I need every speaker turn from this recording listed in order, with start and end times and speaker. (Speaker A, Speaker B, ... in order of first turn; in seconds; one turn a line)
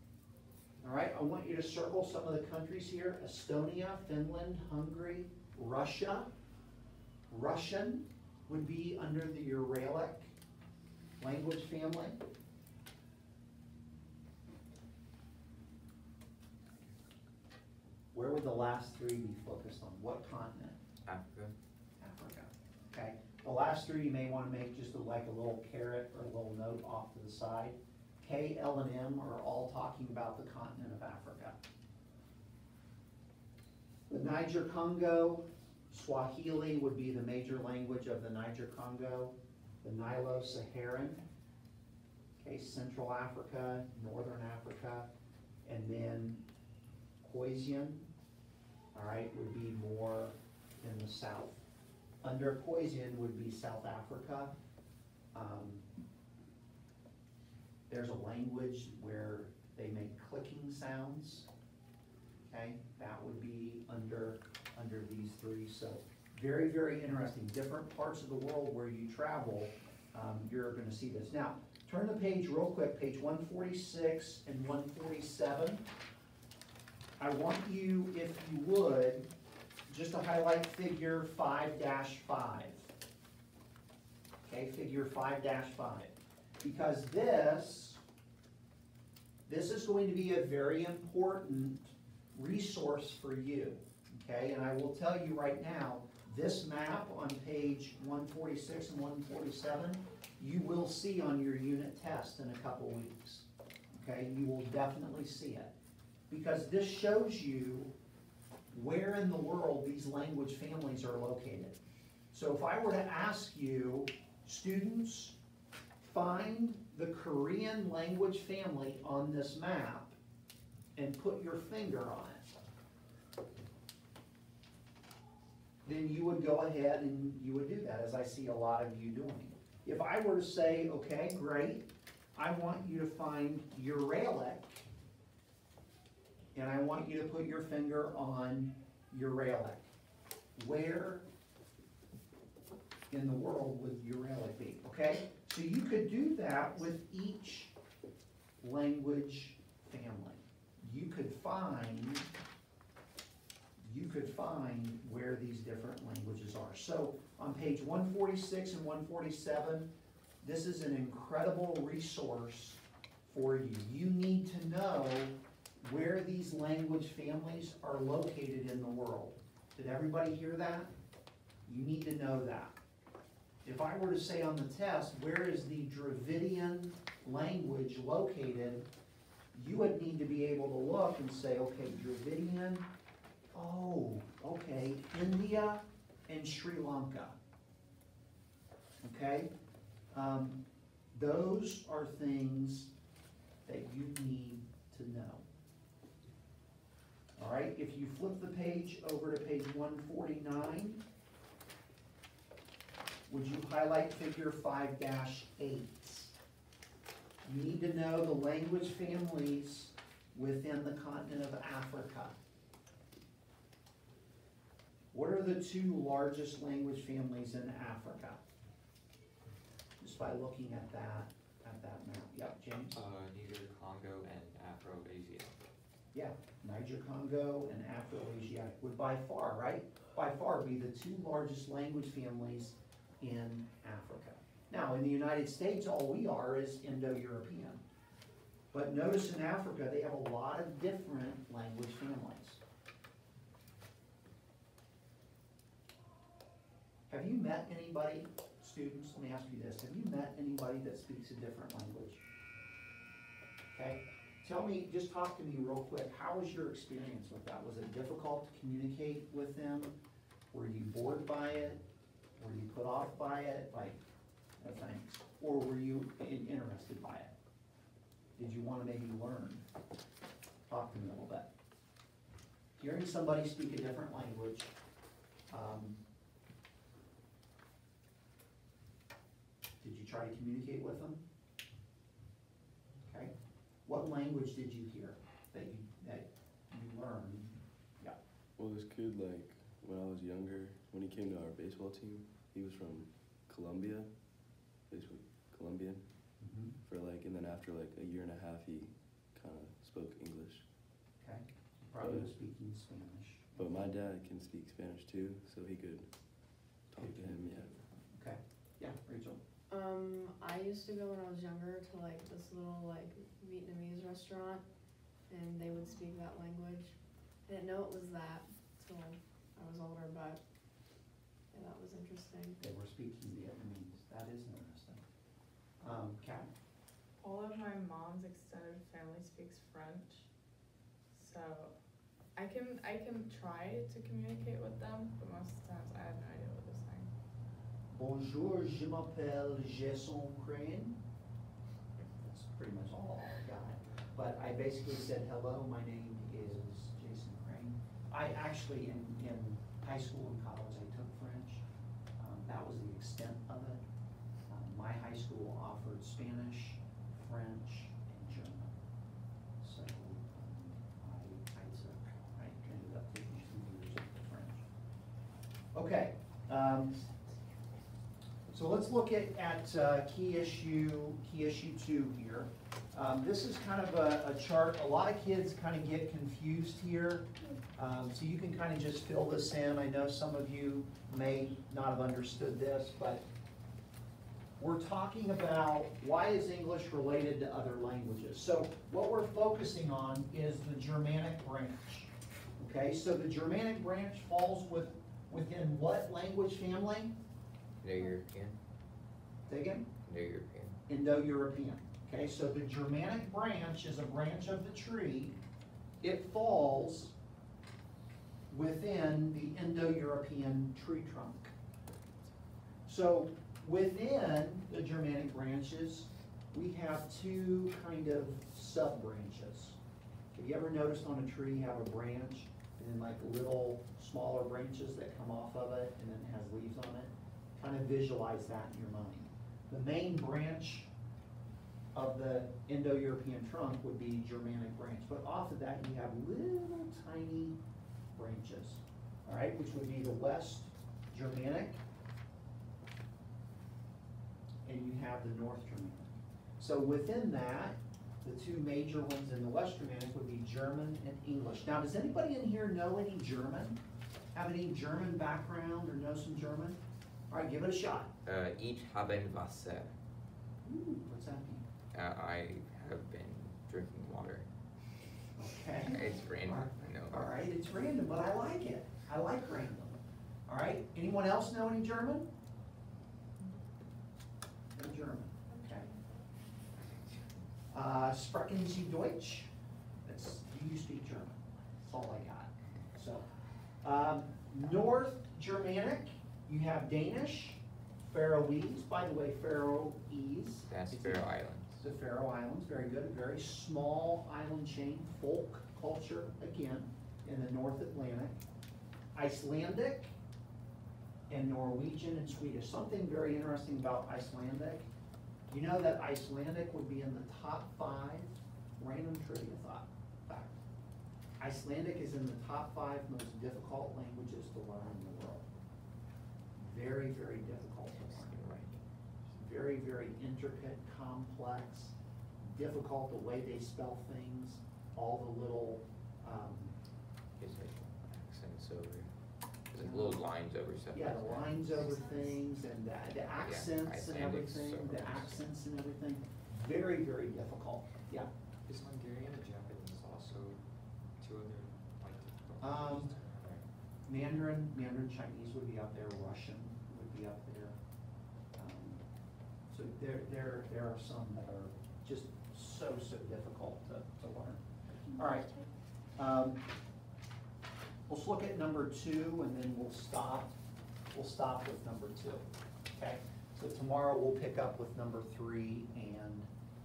Speaker A: 0.8-6.3
Speaker A: 7.3-10.3
Speaker A: 11.2-12.2
Speaker A: 18.1-20.8
Speaker B: 21.0-21.5
Speaker A: 22.0-31.6
Speaker A: 34.1-41.2
Speaker A: 42.4-45.1
Speaker A: 45.6-46.4
Speaker A: 47.2-48.1
Speaker A: 48.9-51.6
Speaker A: 52.2-54.5
Speaker A: 55.3-55.8
Speaker A: 57.9-61.5
Speaker A: 62.5-75.8
Speaker A: 77.2-79.3
Speaker A: 79.9-82.9
Speaker A: 84.4-88.0
Speaker A: 89.5-105.7
Speaker A: 106.3-107.9
Speaker A: 108.7-111.8
Speaker A: 112.3-115.3
Speaker A: 116.0-120.2
Speaker A: 121.0-122.4
Speaker A: 125.8-134.9
Speaker A: 136.5-139.9
Speaker A: 140.6-141.2
Speaker A: 143.1-147.7
Speaker A: 148.6-152.3
Speaker A: 153.8-159.9
Speaker A: 160.4-170.9
Speaker A: 171.7-172.7
Speaker A: 173.6-178.9
Speaker A: 179.5-182.9
Speaker A: 183.5-187.3
Speaker A: 189.0-189.5
Speaker A: 190.1-190.6
Speaker A: 191.1-192.9
Speaker A: 193.7-195.4
Speaker A: 197.4-201.0
Speaker A: 203.3-206.3
Speaker A: 207.4-212.3
Speaker A: 215.1-218.4
Speaker A: 220.0-223.0
Speaker C: 222.9-225.6
Speaker A: 226.1-237.8
Speaker A: 238.7-242.6
Speaker A: 247.1-252.2
Speaker A: 253.7-259.9
Speaker A: 260.5-261.8
Speaker A: 262.4-264.0
Speaker A: 264.6-267.3
Speaker A: 268.4-269.6
Speaker A: 270.7-271.5
Speaker A: 272.8-274.7
Speaker A: 275.5-276.0
Speaker A: 279.8-281.2
Speaker A: 283.1-283.3
Speaker A: 283.9-288.2
Speaker D: 288.6-300.7
Speaker A: 296.4-296.8
Speaker A: 301.2-303.6
Speaker D: 302.0-302.3
Speaker D: 303.6-307.7
Speaker A: 307.0-309.4
Speaker E: 309.7-314.6
Speaker E: 315.3-316.9
Speaker E: 317.5-320.4
Speaker E: 321.5-322.6
Speaker A: 322.6-325.0
Speaker A: 325.8-326.5
Speaker F: 327.2-330.3
Speaker F: 331.1-331.8
Speaker F: 332.3-337.1
Speaker A: 337.9-341.0
Speaker A: 342.2-351.6
Speaker A: 352.2-353.8
Speaker A: 354.5-358.8
Speaker A: 359.6-364.6
Speaker A: 365.7-367.0
Speaker A: 368.5-383.2
Speaker A: 384.6-397.1
Speaker B: 397.8-398.6
Speaker A: 399.5-399.9
Speaker B: 400.0-400.8
Speaker A: 400.9-405.4
Speaker A: 406.0-407.1
Speaker A: 408.5-411.5
Speaker A: 412.9-419.8
Speaker A: 420.3-430.9
Speaker A: 431.9-437.6
Speaker A: 438.1-441.8
Speaker A: 444.6-453.8
Speaker A: 454.3-456.8
Speaker A: 457.3-458.1
Speaker B: 458.2-459.9
Speaker A: 460.6-461.6
Speaker B: 461.9-464.5
Speaker A: 465.4-472.3
Speaker B: 465.8-467.3
Speaker A: 474.7-475.9
Speaker A: 477.7-479.5
Speaker A: 480.0-483.2
Speaker A: 483.8-498.4
Speaker B: 490.7-491.8
Speaker A: 499.1-500.1
Speaker A: 501.3-504.9
Speaker A: 505.5-510.6
Speaker A: 511.4-515.5
Speaker A: 516.5-518.4
Speaker B: 517.9-518.8
Speaker A: 519.3-526.7
Speaker B: 527.4-529.1
Speaker B: 529.7-532.0
Speaker A: 529.7-530.3
Speaker A: 530.9-538.3
Speaker E: 531.8-532.1
Speaker B: 533.4-535.5
Speaker C: 538.6-540.6
Speaker C: 541.2-543.7
Speaker A: 542.6-543.1
Speaker A: 544.1-547.8
Speaker A: 548.5-549.0
Speaker A: 549.7-554.6
Speaker E: 555.1-555.6
Speaker A: 555.1-555.5
Speaker A: 556.2-556.6
Speaker A: 558.1-560.5
Speaker A: 561.1-566.5